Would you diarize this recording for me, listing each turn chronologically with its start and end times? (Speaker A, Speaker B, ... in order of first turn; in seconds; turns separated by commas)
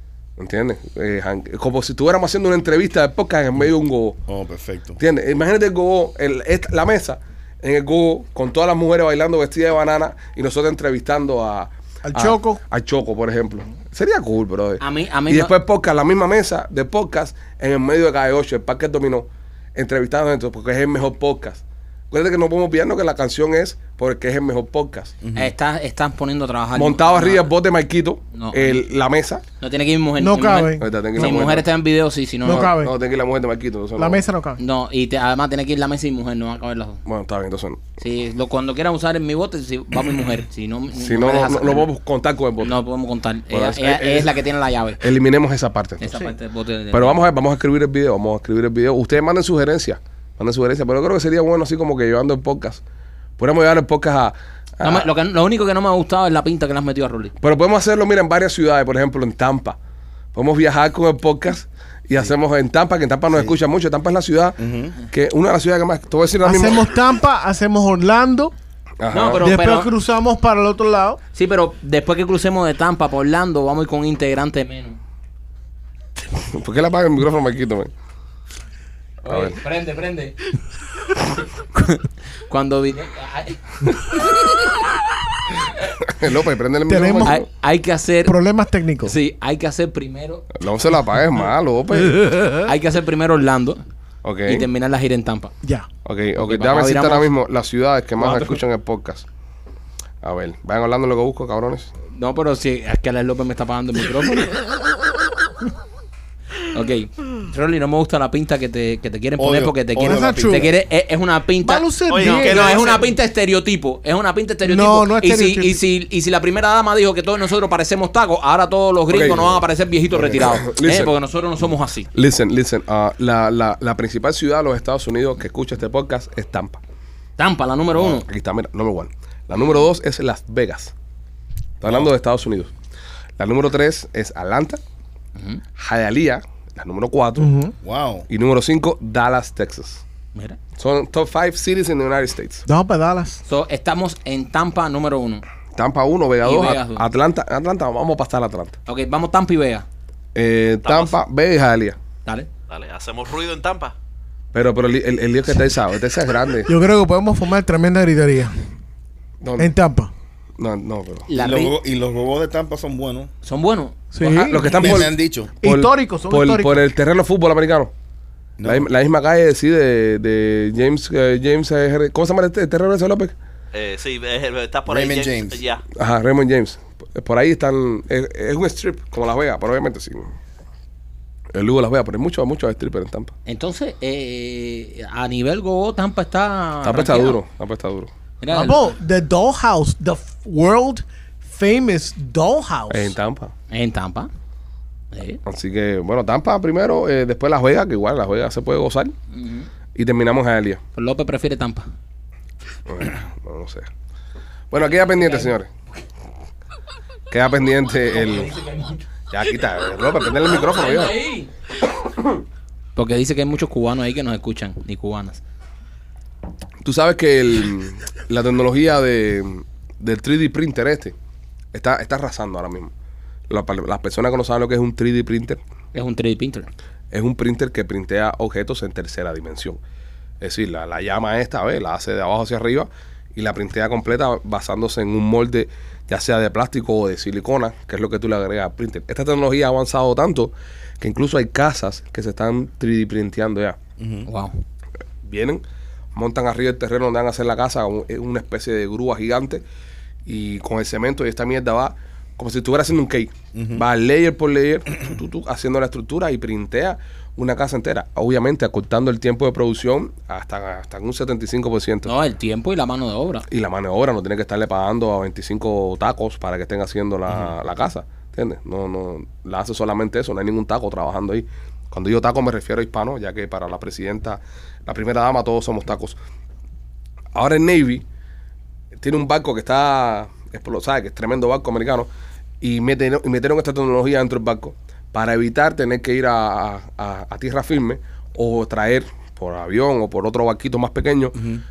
Speaker A: 0.4-4.2, Speaker B: 4.3-5.0, Speaker A: 5.0-25.1, Speaker C: 12.0-12.6, Speaker D: 14.8-15.5, Speaker B: 25.2-25.5, Speaker D: 25.3-27.4, Speaker A: 26.7-29.4, Speaker D: 28.3-28.8, Speaker D: 29.6-32.7, Speaker C: 30.2-31.4, Speaker A: 30.8-31.6, Speaker C: 32.4-32.9, Speaker A: 32.5-34.2, Speaker C: 34.0-34.6, Speaker D: 34.6-37.0, Speaker A: 37.0-37.8, Speaker D: 38.0-41.9, Speaker A: 41.0-42.7, Speaker D: 42.6-45.0, Speaker A: 43.5-44.3, Speaker A: 45.0-46.1, Speaker D: 46.0-47.2, Speaker A: 46.9-52.8, Speaker A: 53.4-55.1, Speaker D: 54.8-57.3, Speaker A: 57.4-59.8, Speaker A: 60.3-66.9, Speaker B: 63.3-63.6, Speaker B: 64.6-65.0, Speaker C: 66.4-68.5, Speaker A: 69.0-69.4, Speaker D: 69.1-69.9, Speaker C: 69.4-71.2, Speaker D: 71.3-75.0, Speaker A: 76.5-77.9, Speaker D: 79.2-80.4, Speaker A: 79.3-79.5, Speaker D: 81.8-84.5, Speaker A: 86.0-87.4, Speaker C: 86.9-87.4, Speaker D: 87.2-88.4, Speaker C: 88.2-89.1, Speaker D: 89.0-90.5, Speaker A: 90.5-92.4, Speaker D: 92.6-93.8, Speaker A: 94.2-94.7, Speaker D: 94.5-95.5, Speaker A: 96.0-99.2, Speaker D: 96.4-97.3, Speaker D: 98.2-98.6, Speaker A: 100.2-101.9, Speaker D: 102.1-104.6, Speaker D: 106.7-122.1, Speaker B: 109.4-110.7, Speaker C: 110.0-110.7, Speaker C: 111.6-113.0, Speaker E: 112.1-113.0, Speaker C: 114.6-115.8, Speaker A: 119.1-119.6, Speaker B: 120.1-120.5, Speaker A: 120.3-121.1, Speaker A: 122.1-126.8, Speaker D: 127.4-128.2, Speaker A: 128.0-130.9, Speaker A: 131.8-132.7, Speaker B: 131.8-132.1, Speaker A: 133.4-134.8, Speaker A: 135.8-137.5, Speaker C: 137.4-137.7, Speaker B: 137.8-138.3, Speaker A: 138.3-140.0, Speaker A: 140.8-142.6, Speaker C: 142.7-143.4, Speaker D: 143.4-145.4, Speaker A: 145.8-148.8, Speaker D: 146.4-147.0, Speaker D: 148.9-149.8, Speaker A: 150.3-152.0, Speaker E: 150.8-151.1, Speaker E: 152.7-153.9, Speaker A: 154.5-156.7, Speaker C: 156.7-158.5, Speaker A: 159.4-159.7, Speaker C: 159.6-160.1, Speaker A: 160.6-161.3, Speaker D: 161.3-161.7, Speaker B: 161.3-163.3, Speaker D: 163.4-163.9, Speaker C: 164.1-165.1, Speaker A: 164.2-167.9, Speaker B: 164.6-165.5, Speaker C: 165.6-166.8, Speaker B: 168.6-168.9, Speaker A: 168.6-173.3, Speaker E: 173.7-175.8, Speaker B: 174.9-175.6, Speaker A: 175.9-180.3, Speaker A: 181.5-183.3, Speaker D: 183.4-187.4, Speaker A: 186.8-188.1, Speaker D: 188.4-188.8, Speaker C: 188.5-193.1, Speaker A: 192.9-193.5, Speaker D: 193.7-194.3, Speaker D: 195.1-195.4, Speaker A: 195.4-199.1, Speaker D: 199.3-199.7, Speaker A: 199.9-200.8, Speaker D: 200.9-201.8, Speaker A: 202.9-203.9, Speaker A: 204.7-205.7, Speaker D: 205.1-205.5, Speaker A: 207.3-208.5, Speaker D: 208.1-209.1, Speaker A: 209.3-211.1, Speaker D: 210.4-211.5, Speaker D: 212.9-215.4, Speaker A: 216.8-221.1, Speaker A: 221.7-222.9, Speaker A: 223.5-225.6, Speaker D: 225.9-226.7, Speaker A: 227.1-229.8, Speaker A: 230.4-243.8, Speaker B: 244.0-244.3, Speaker D: 244.3-244.5, Speaker A: 245.2-245.6, Speaker A: 246.1-249.6, Speaker A: 250.2-262.1, Speaker B: 253.5-253.8, Speaker D: 262.0-263.4, Speaker A: 263.5-276.2, Speaker A: 277.3-278.0, Speaker A: 279.0-282.1, Speaker A: 282.6-291.4, Speaker B: 291.4-291.6